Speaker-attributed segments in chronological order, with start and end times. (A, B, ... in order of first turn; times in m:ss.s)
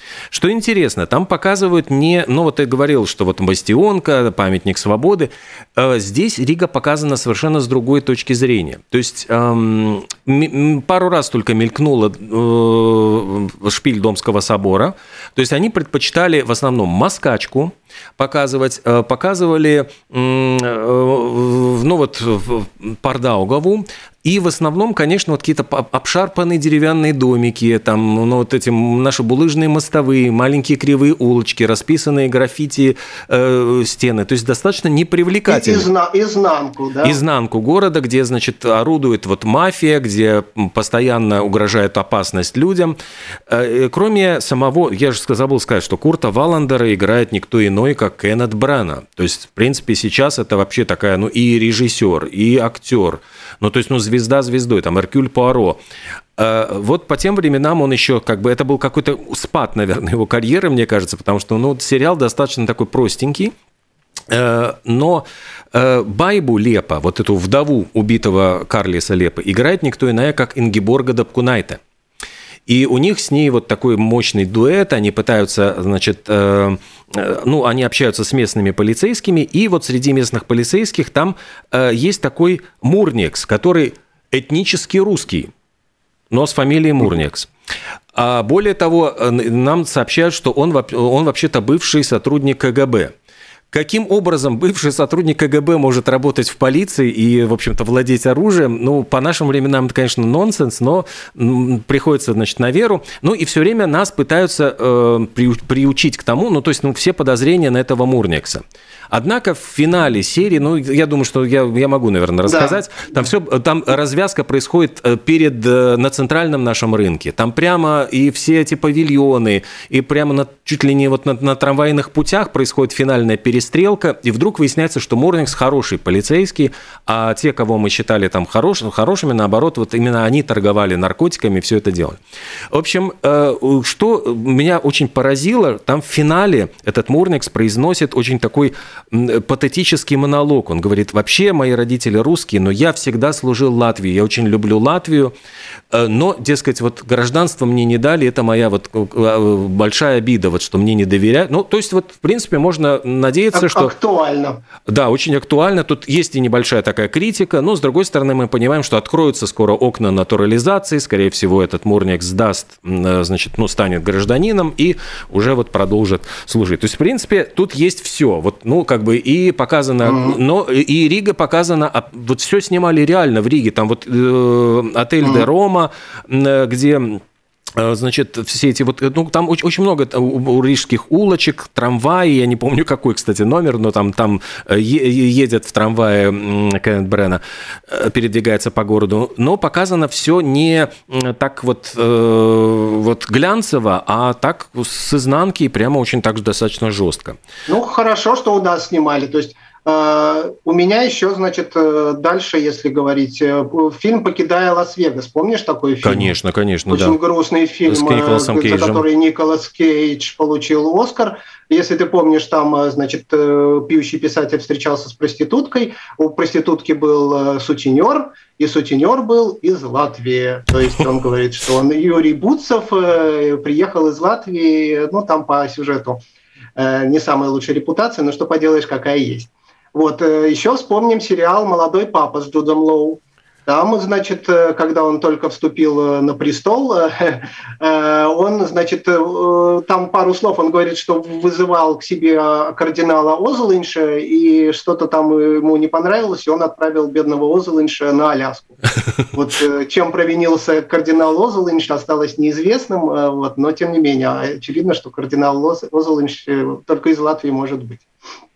0:00.3-0:35.9 A
0:35.5-0:37.2 B
0:37.0-0:43.0 A
0:43.5-0:55.8 A
0:56.4-1:03.5 A
1:04.3-1:11.8 A
1:12.7-1:25.5 A
1:26.3-1:27.5 A
1:28.1-1:33.1 A
1:33.7-2:12.2 A
1:52.4-1:52.8 B
2:12.7-2:25.3 A
2:25.9-2:33.9 A
2:33.5-2:34.6 B
2:34.9-2:57.2 A
2:50.0-2:50.4 B
2:55.2-2:55.5 B
2:57.8-3:17.4 A
3:17.7-3:26.3 B
3:26.0-3:27.2 A
3:26.9-3:46.2 B
3:27.9-3:29.0 A
3:46.8-4:08.8 B
4:09.3-4:18.1 B